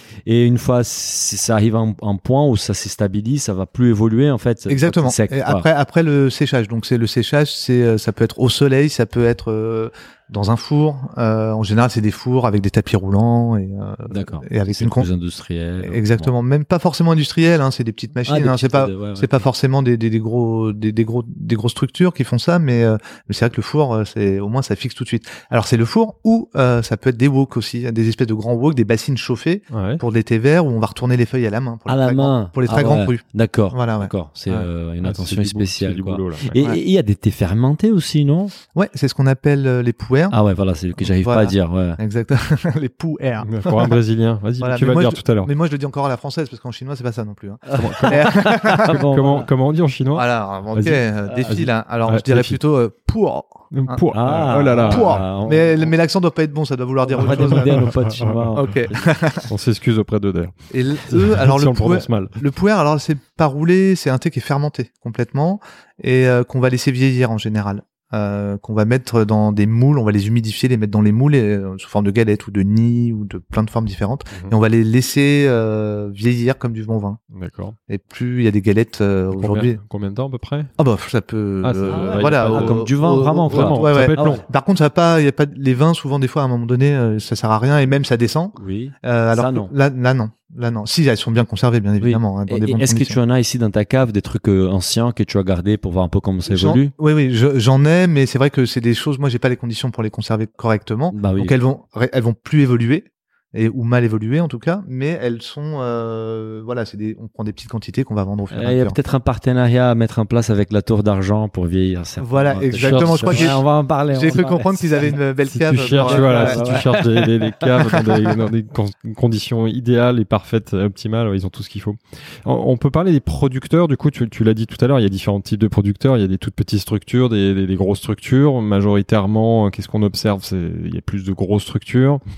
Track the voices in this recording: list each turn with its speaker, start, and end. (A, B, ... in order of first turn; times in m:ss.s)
0:00.2-0:05.6 A
0:04.7-0:15.1 B
0:14.1-0:16.3 A
0:15.8-0:34.1 B
0:18.2-0:19.4 A
0:29.7-0:30.0 C
0:31.9-0:38.5 A
0:34.5-0:36.6 C
0:36.5-0:36.8 B
0:38.7-0:40.4 B
0:40.3-0:42.0 A
0:41.0-0:44.0 B
0:43.4-0:45.5 C
0:44.6-0:49.0 B
0:47.6-0:49.5 A
0:47.8-0:52.5 C
0:50.1-0:54.0 B
0:51.2-0:51.5 A
0:53.7-0:55.2 C
0:54.1-0:55.9 A
0:54.8-0:57.9 B
0:57.1-0:59.1 A
0:57.2-0:58.6 C
0:58.6-0:59.5 B
0:59.4-1:00.5 C
1:00.7-1:17.2 B
1:01.1-1:02.4 C
1:17.3-1:17.8 C
1:17.9-1:19.8 B
1:19.3-1:20.7 C
1:20.8-1:33.2 B
1:21.6-1:22.9 C
1:21.9-1:24.4 A
1:23.5-1:24.4 C
1:28.6-1:29.7 A
1:32.0-1:36.9 A
1:36.5-1:49.0 B
1:41.1-1:41.5 A
1:48.5-1:55.2 A
1:52.2-1:56.9 B
1:52.8-1:53.5 C
1:55.5-2:12.2 C
1:56.0-1:58.0 A
1:57.8-1:58.1 B